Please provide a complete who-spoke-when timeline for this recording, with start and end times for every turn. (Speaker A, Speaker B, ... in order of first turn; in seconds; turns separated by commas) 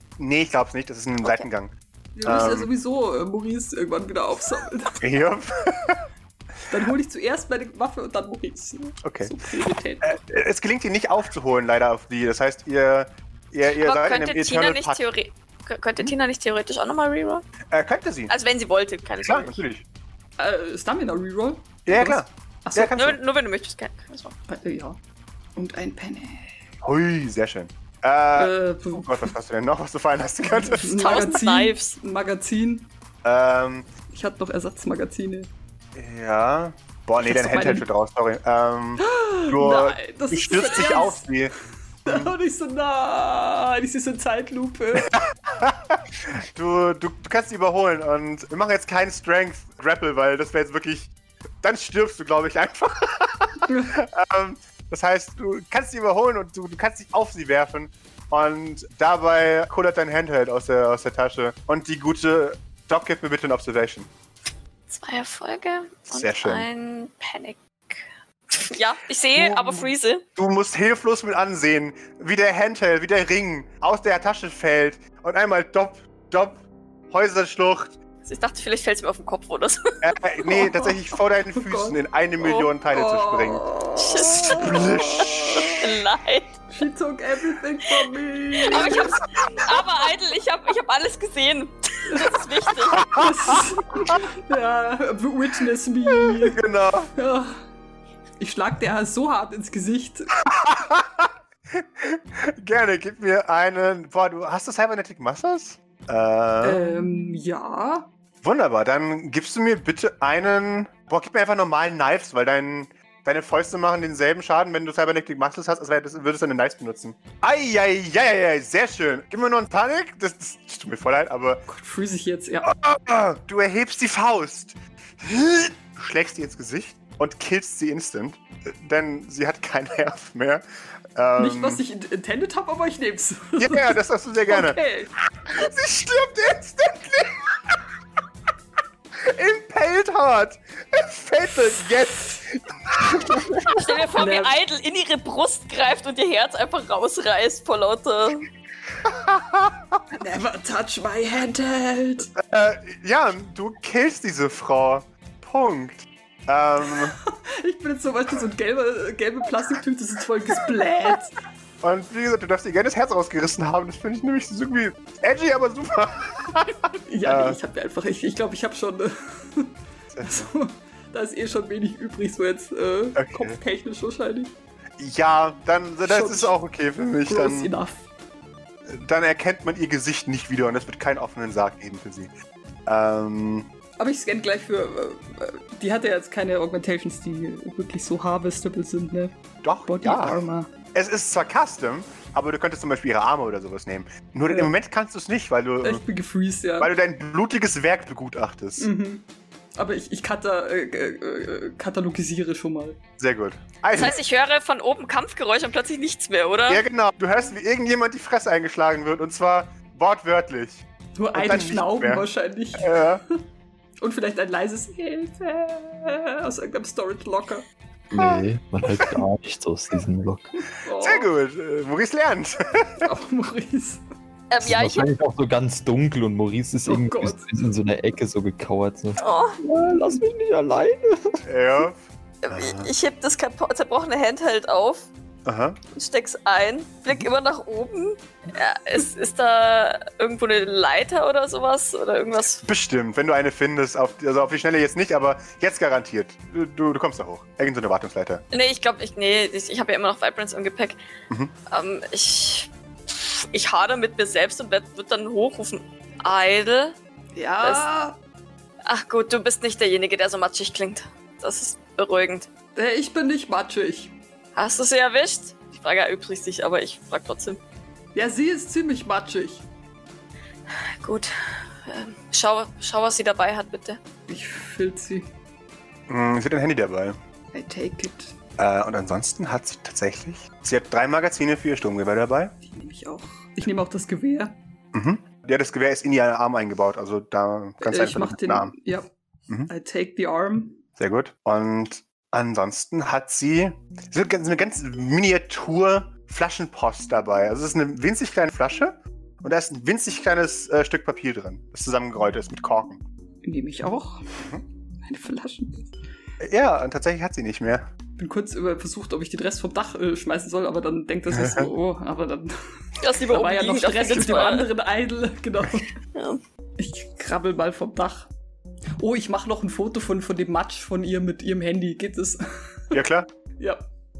Speaker A: 0.2-2.7, Speaker B: 2.1-5.0, Speaker A: 5.0-6.0, Speaker B: 6.7-10.2, Speaker A: 9.0-9.3, Speaker A: 10.0-15.0, Speaker C: 13.8-17.4, Speaker A: 17.7-18.3, Speaker C: 18.3-19.6, Speaker A: 19.2-19.8, Speaker B: 20.4-22.9, Speaker A: 21.9-23.2, Speaker C: 22.9-24.3, Speaker B: 24.5-25.0, Speaker B: 25.6-26.5, Speaker A: 26.8-31.2, Speaker B: 28.4-29.3, Speaker B: 30.5-32.9, Speaker C: 30.9-31.9, Speaker A: 33.2-33.9, Speaker B: 34.1-35.5, Speaker A: 35.9-41.5, Speaker B: 37.2-37.9, Speaker B: 39.0-41.3, Speaker A: 42.0-42.3, Speaker B: 42.0-45.1, Speaker A: 45.0-64.1, Speaker B: 53.7-54.0, Speaker C: 64.9-70.2, Speaker A: 66.1-66.7, Speaker A: 69.3-78.0, Speaker C: 78.2-80.2, Speaker A: 80.0-83.6, Speaker B: 80.5-80.9, Speaker B: 81.5-82.0, Speaker C: 82.4-82.7, Speaker B: 82.9-85.9, Speaker C: 84.0-84.9, Speaker A: 84.3-85.8, Speaker C: 85.5-86.6, Speaker B: 86.7-89.2, Speaker C: 88.6-93.1, Speaker B: 92.1-92.4, Speaker A: 93.0-94.2, Speaker B: 93.1-96.6, Speaker A: 96.1-97.1, Speaker B: 97.1-97.6, Speaker B: 98.4-100.3, Speaker A: 100.4-106.8, Speaker B: 106.6-108.1, Speaker A: 108.4-121.6, Speaker B: 121.7-122.7, Speaker A: 122.6-131.8, Speaker B: 131.4-134.0, Speaker A: 133.6-134.8, Speaker B: 134.5-135.1, Speaker A: 135.4-137.8, Speaker A: 139.2-143.8, Speaker C: 143.7-148.5, Speaker B: 144.2-144.5, Speaker A: 149.0-150.0, Speaker B: 150.1-152.3, Speaker A: 152.3-157.2, Speaker B: 156.9-161.4, Speaker A: 161.8-167.6, Speaker B: 167.1-174.5, Speaker A: 170.1-170.5, Speaker A: 173.2-173.6, Speaker A: 175.0-177.7, Speaker B: 176.0-176.5, Speaker B: 177.3-178.0, Speaker A: 178.8-182.3, Speaker A: 182.8-183.7, Speaker B: 184.0-189.3, Speaker A: 189.6-190.4, Speaker B: 189.9-190.7, Speaker A: 190.9-196.0, Speaker B: 195.8-196.9, Speaker A: 196.8-198.9, Speaker B: 198.8-203.0, Speaker A: 203.2-204.2, Speaker C: 203.9-206.8, Speaker A: 206.7-213.2, Speaker B: 211.2-213.4, Speaker B: 214.0-217.7, Speaker D: 218.1-220.6, Speaker A: 218.1-218.4, Speaker B: 220.7-221.3, Speaker A: 220.9-223.1, Speaker B: 223.0-224.0, Speaker C: 224.5-225.1, Speaker D: 224.6-231.4, Speaker B: 226.9-227.4, Speaker C: 229.2-229.6, Speaker A: 231.4-232.9, Speaker C: 232.4-235.1, Speaker A: 235.4-235.8, Speaker C: 235.9-242.6, Speaker A: 242.6-248.4, Speaker C: 248.5-251.0, Speaker C: 251.7-256.9, Speaker B: 257.3-258.2, Speaker C: 257.6-257.9, Speaker C: 258.8-262.5, Speaker B: 262.7-264.1, Speaker C: 264.6-267.6, Speaker B: 268.1-269.6, Speaker C: 271.0-271.3, Speaker C: 271.8-274.0, Speaker B: 274.3-275.3, Speaker A: 276.1-277.2, Speaker B: 277.5-278.3, Speaker A: 278.6-282.6, Speaker B: 282.6-284.6, Speaker A: 284.9-288.7, Speaker B: 287.8-289.1, Speaker B: 289.7-290.8, Speaker A: 291.0-303.0, Speaker B: 303.4-304.2, Speaker B: 305.0-305.9, Speaker A: 306.4-307.9, Speaker B: 308.2-312.6, Speaker A: 311.3-311.7, Speaker C: 313.0-314.7, Speaker B: 313.3-315.9, Speaker C: 316.1-316.4, Speaker B: 316.8-318.3, Speaker B: 319.0-323.0, Speaker A: 322.9-323.3, Speaker B: 323.6-323.8